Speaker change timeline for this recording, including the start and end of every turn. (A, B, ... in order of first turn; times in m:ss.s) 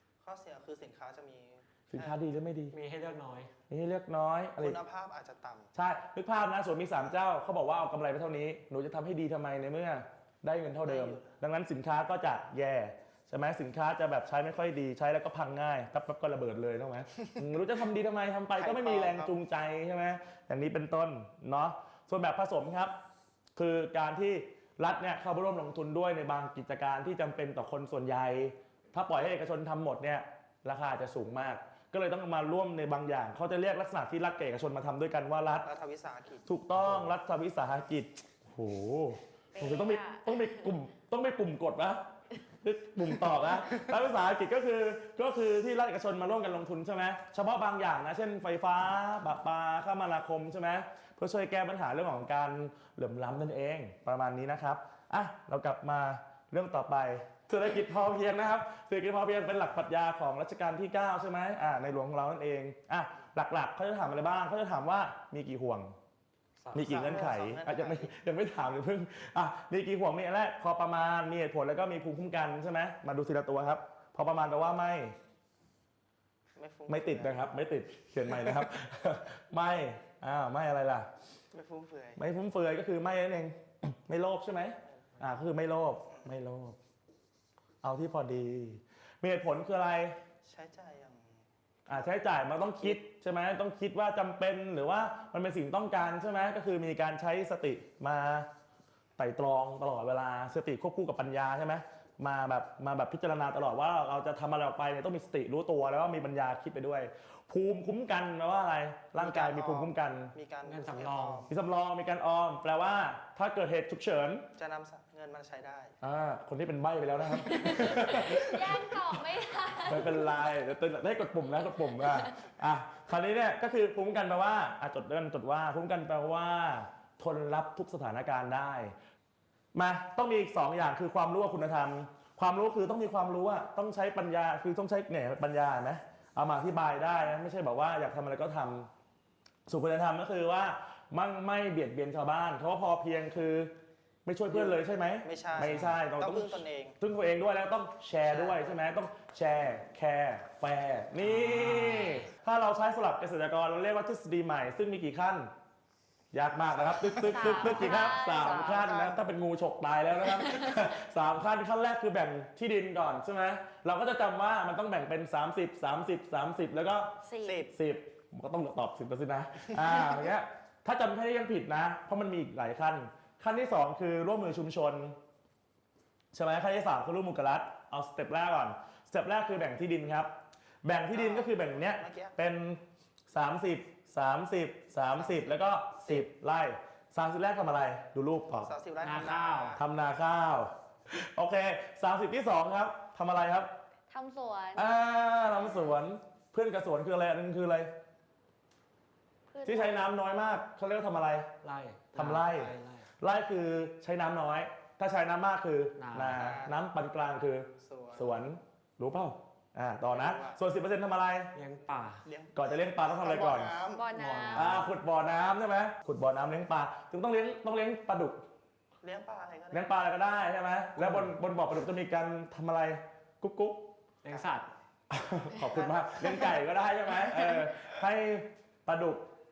0:00.2-0:02.2 A
0:01.9-0:02.8 B
0:02.7-0:03.5 C
0:03.7-0:04.8 B
0:04.6-0:05.7 A
0:05.7-0:22.9 B
0:10.8-0:11.4 A
0:18.6-0:19.4 A
0:23.6-0:35.7 B
0:35.6-0:36.5 A
0:36.5-0:42.0 B
0:39.5-0:40.4 D
0:42.6-1:05.9 B
1:06.6-1:07.0 C
1:06.7-1:15.2 B
1:06.8-1:08.2 A
1:16.6-1:17.5 A
1:16.9-1:21.1 B
1:21.5-1:22.2 A
1:22.2-1:26.8 B
1:27.8-1:30.2 B
1:30.4-1:31.3 A
1:31.9-1:38.5 B
1:39.2-1:50.3 B
1:49.2-1:51.5 A
1:50.6-1:51.5 C
1:51.5-1:54.5 B
1:54.6-1:55.9 A
1:56.0-1:59.1 B
1:57.6-2:00.3 D
1:59.8-2:08.9 B
2:09.7-2:18.9 B
2:19.7-2:23.7 B
2:24.3-2:35.5 B
2:24.5-2:27.0 A
2:25.6-2:26.0 C
2:28.2-2:28.8 A
2:31.2-2:32.3 C
2:36.3-2:47.2 B
2:36.9-2:39.2 A
2:37.2-2:38.9 D
2:47.2-2:47.6 D
2:47.4-2:47.7 A
2:47.7-2:55.2 B
2:56.3-3:08.7 B
3:01.1-3:02.3 A
3:05.2-3:05.5 A
3:08.5-3:09.8 A
3:09.0-3:09.8 C
3:09.8-3:13.7 B
3:14.1-3:14.9 D
3:14.8-3:17.9 B
3:19.5-3:20.1 D
3:19.6-3:21.5 B
3:21.6-3:23.1 C
3:22.1-3:31.5 B
3:26.0-3:26.5 C
3:26.3-3:26.8 A
3:27.8-3:28.4 A
3:30.1-3:30.6 A
3:31.6-3:32.3 C
3:32.2-3:34.1 A
3:32.6-3:33.8 B
3:33.9-3:34.8 D
3:34.2-3:34.9 C
3:34.5-3:38.4 B
3:39.0-3:39.9 A
3:39.7-3:43.9 B
3:41.0-3:41.3 C
3:44.2-3:44.7 C
3:44.3-3:44.6 A
3:45.1-3:49.3 B
3:45.6-3:46.7 A